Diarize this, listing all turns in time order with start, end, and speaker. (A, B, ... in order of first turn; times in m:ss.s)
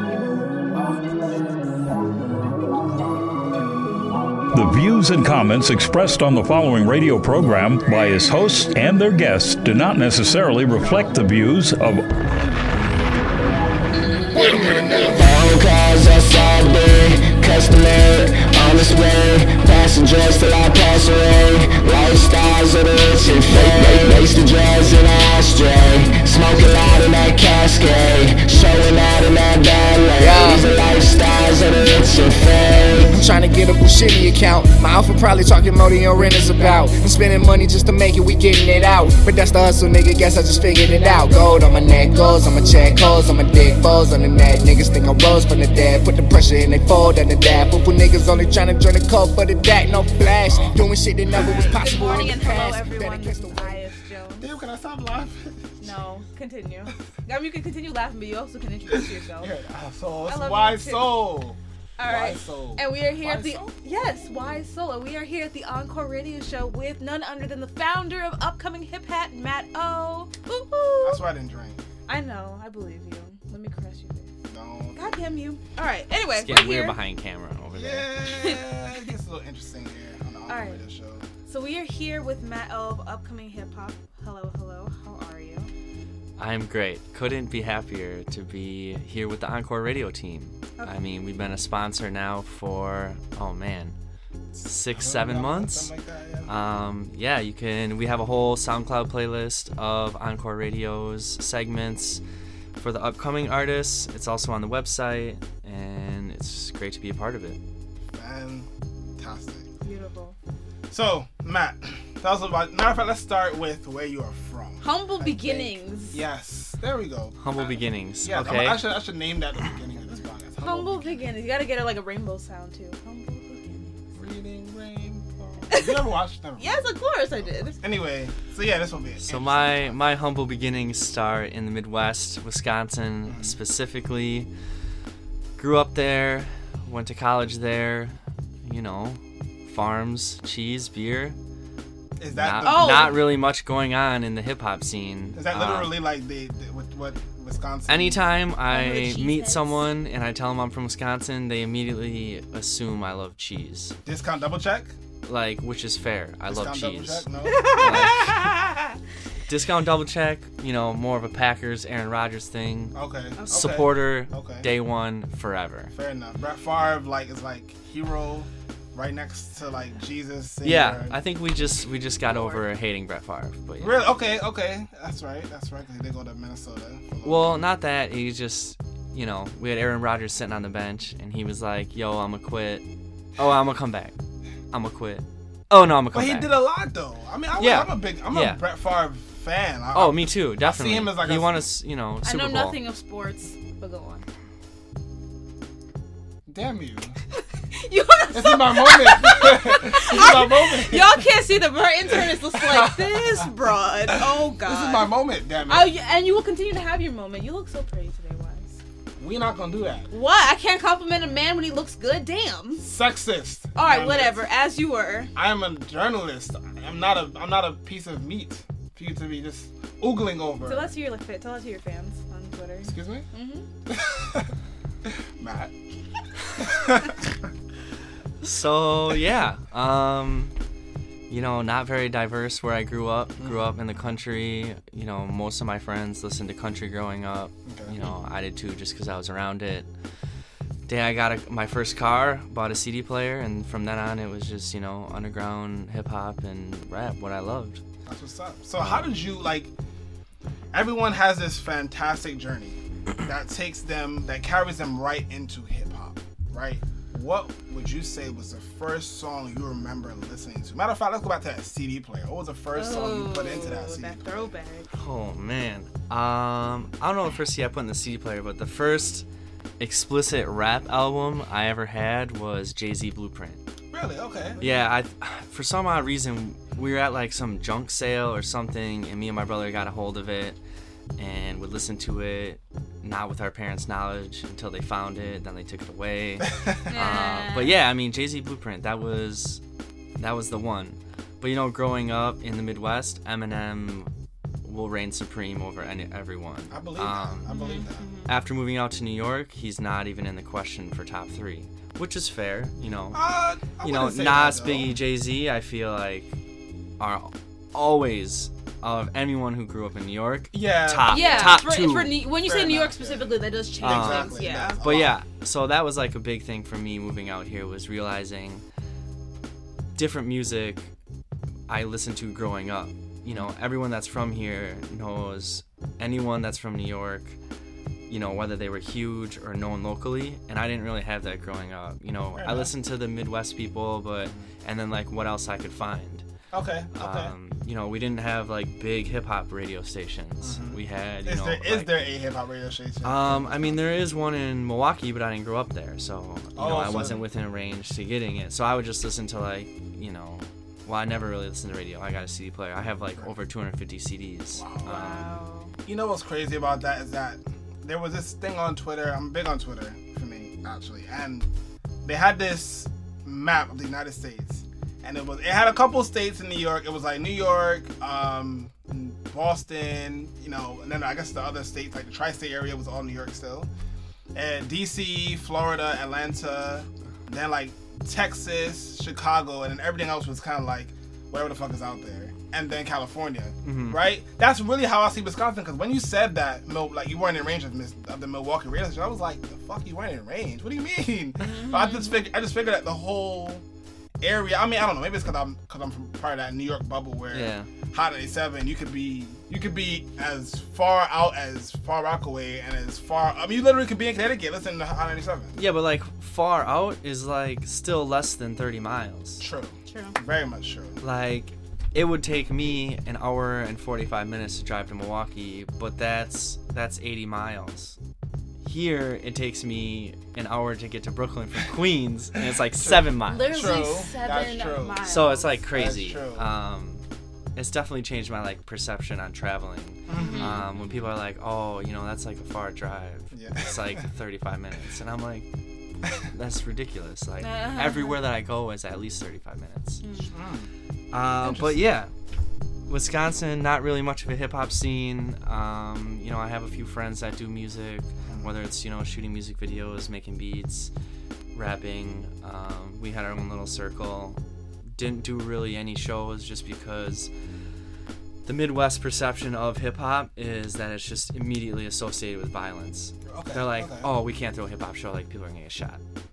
0:04.5-0:12.0 A
0:14.3-0:33.2 B
0:23.5-0:24.2 C
0:30.2-0:30.7 C
0:33.0-0:53.8 C
0:51.4-0:54.5 D
0:54.4-0:55.7 E
0:55.8-0:59.5 D
0:58.9-1:03.7 E
1:00.2-1:01.2 D
1:02.0-1:11.2 D
1:11.0-1:11.8 E
1:12.1-1:14.3 D
1:14.5-1:15.3 E
1:14.9-1:17.0 D
1:16.3-1:18.1 F
1:17.7-1:21.2 E
1:18.3-1:18.6 D
1:20.5-1:20.8 D
1:21.4-1:25.7 D
1:26.4-1:34.0 F
1:34.6-1:36.5 E
1:34.6-1:35.9 F
1:36.4-1:42.2 F
1:42.8-1:47.6 F
1:48.1-1:49.7 E
1:49.8-1:50.4 D
1:50.9-2:01.3 E
1:54.8-1:56.2 D
1:57.4-1:58.8 F
2:00.6-2:04.1 D
2:04.2-2:06.8 E
2:05.7-2:06.0 D
2:06.6-2:07.8 D
2:07.4-2:10.0 E
2:09.2-2:14.5 F
2:13.2-2:13.6 E
2:15.6-2:21.4 F
2:22.2-2:23.2 E
2:22.3-2:25.9 F
2:22.6-2:23.2 D
2:25.3-2:28.2 E
2:27.9-2:34.0 F
2:28.7-2:29.8 D
2:34.0-2:34.9 E
2:35.2-2:38.5 F
2:36.5-2:38.3 E
2:37.5-2:38.9 D
2:39.5-2:42.9 F
2:42.9-2:44.7 E
2:43.4-2:43.6 D
2:43.5-2:45.9 F
2:45.9-2:51.2 E
2:50.6-2:54.0 F
2:52.3-2:52.6 D
2:53.8-2:57.6 E
2:57.2-3:02.8 F
3:03.4-3:04.1 F
3:04.7-3:06.5 F
3:06.1-3:11.6 E
3:07.6-3:08.6 F
3:09.9-3:12.8 F
3:12.2-3:14.2 D
3:16.5-3:17.2 E
3:17.7-3:25.1 D
3:18.3-3:21.3 E
3:22.1-3:23.5 E
3:24.1-3:25.9 E
3:25.6-3:28.8 D
3:29.2-3:30.1 E
3:30.1-3:32.8 D
3:32.8-3:34.4 E
3:33.7-3:35.3 D
3:35.3-3:40.9 E
3:40.6-3:43.7 D
3:42.8-3:43.3 E
3:43.9-3:44.5 E
3:45.0-3:45.7 E
3:46.5-3:47.2 E
3:48.4-3:50.5 F
3:51.3-3:59.9 F
3:53.4-3:53.8 E
3:57.6-3:58.0 E
4:00.8-4:07.8 F
4:08.0-4:09.7 E
4:08.8-4:09.0 F
4:10.7-4:24.5 E
4:22.7-4:24.9 D
4:24.9-4:29.2 F
4:29.8-4:33.6 F
4:33.9-4:34.7 E
4:34.6-4:40.6 F
4:41.2-4:49.6 F
4:46.9-4:47.7 D
4:50.2-4:54.1 F
4:54.6-4:57.5 F
4:56.7-4:58.0 E
4:57.5-4:58.3 D
4:58.2-5:03.2 F
5:03.1-5:04.9 E
5:03.8-5:06.3 F
5:07.0-5:12.1 F
5:10.5-5:11.6 E
5:11.1-5:14.8 D
5:12.4-5:15.1 E
5:13.8-5:18.6 F
5:19.9-5:20.9 F
5:21.7-5:27.4 F
5:28.1-5:36.2 F
5:32.3-5:32.7 E
5:36.5-5:37.3 E
5:36.9-5:41.9 F
5:40.4-5:44.0 E
5:43.0-5:55.0 F
5:46.5-5:47.2 E
5:54.5-6:01.5 E
5:54.8-5:55.7 D
6:02.0-6:13.7 E
6:14.3-6:33.6 E
6:23.6-6:24.0 F
6:31.4-6:32.1 D
6:34.2-6:45.5 E
6:37.3-6:37.7 F
6:45.5-6:49.4 F
6:49.4-6:51.0 E
6:49.9-6:50.2 D
6:51.0-6:58.0 F
6:58.6-7:03.5 F
7:02.8-7:06.4 E
7:03.3-7:05.6 D
7:05.0-7:07.0 F
7:07.5-7:15.5 F
7:10.1-7:10.6 E
7:10.1-7:11.0 D
7:13.3-7:14.0 E
7:16.2-7:20.0 F
7:17.4-7:18.2 D
7:20.0-7:20.3 D
7:20.2-7:20.7 E
7:21.1-7:22.1 F
7:21.4-7:21.8 E
7:22.9-7:30.9 F
7:28.2-7:28.5 E
7:31.5-7:34.4 F
7:34.9-7:37.3 F
7:38.4-7:46.0 F
7:43.2-7:44.1 E